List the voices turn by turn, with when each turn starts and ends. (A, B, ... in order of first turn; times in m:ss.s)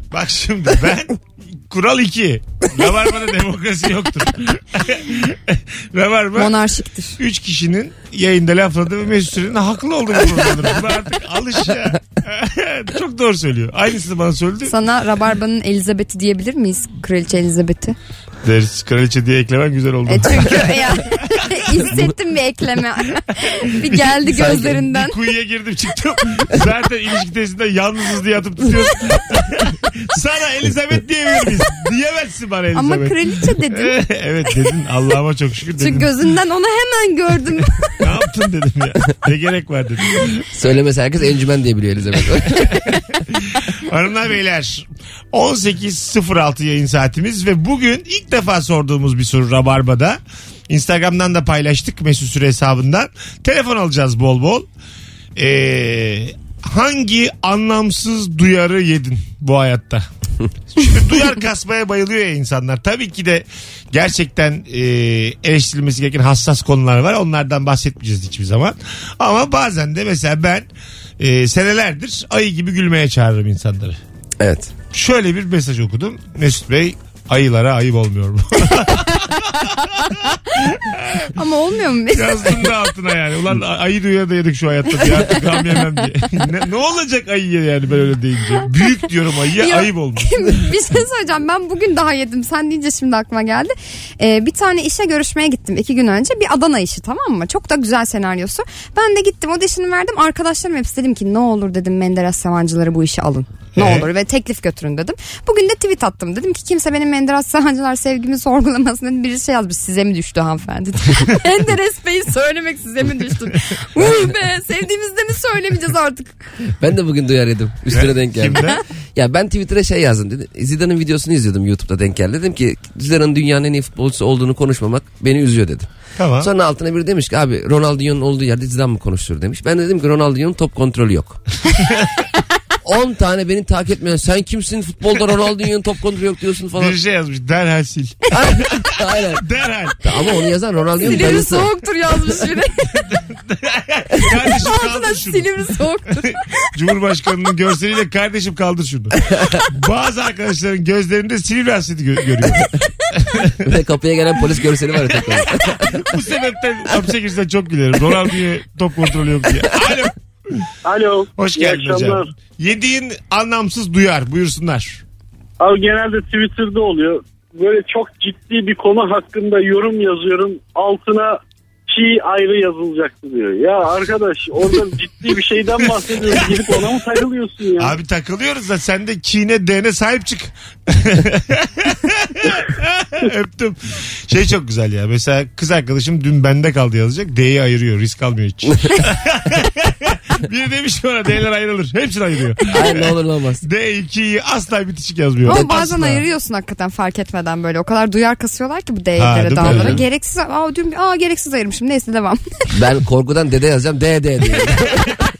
0:00.1-0:06.6 A
0:06.4-0:07.2 B
0:07.2-0:14.7 A
0:14.6-0:18.0 B
0:18.4-0:21.9 A
0:20.1-0:25.2 B
0:23.8-0:36.1 A
0:24.3-0:24.8 C
0:32.7-0:33.9 B
0:35.8-0:38.0 B
0:38.0-0:40.4 A
0:40.5-0:43.0 C
0:42.5-0:54.6 A
0:55.4-1:00.1 A
1:00.7-1:10.6 A
1:11.2-1:14.0 A
1:14.4-1:14.7 C
1:14.9-1:21.3 A
1:21.4-1:22.7 B
1:22.1-1:30.6 A
1:29.6-1:56.5 B
1:43.8-1:44.1 A
1:56.8-1:58.6 C
1:57.9-1:58.8 A
1:59.1-2:05.9 C
2:06.2-2:06.5 A
2:06.4-2:11.4 C
2:12.8-2:17.0 C
2:16.8-2:18.2 A
2:18.3-2:19.4 C
2:19.3-2:20.0 A
2:20.0-2:21.7 C
2:21.0-2:22.8 B
2:23.1-2:25.5 A
2:24.4-2:26.7 B
2:26.3-2:29.1 A
2:29.7-2:33.7 A
2:33.6-2:36.1 C
2:35.2-2:40.6 A
2:40.8-2:42.3 D
2:41.4-2:45.0 A
2:45.6-2:58.0 D
2:56.2-2:56.6 A
2:57.8-3:16.2 A
3:12.7-3:13.6 C
3:15.4-3:22.4 B
3:19.2-3:20.0 A
3:19.6-3:20.0 C
3:22.7-3:25.2 C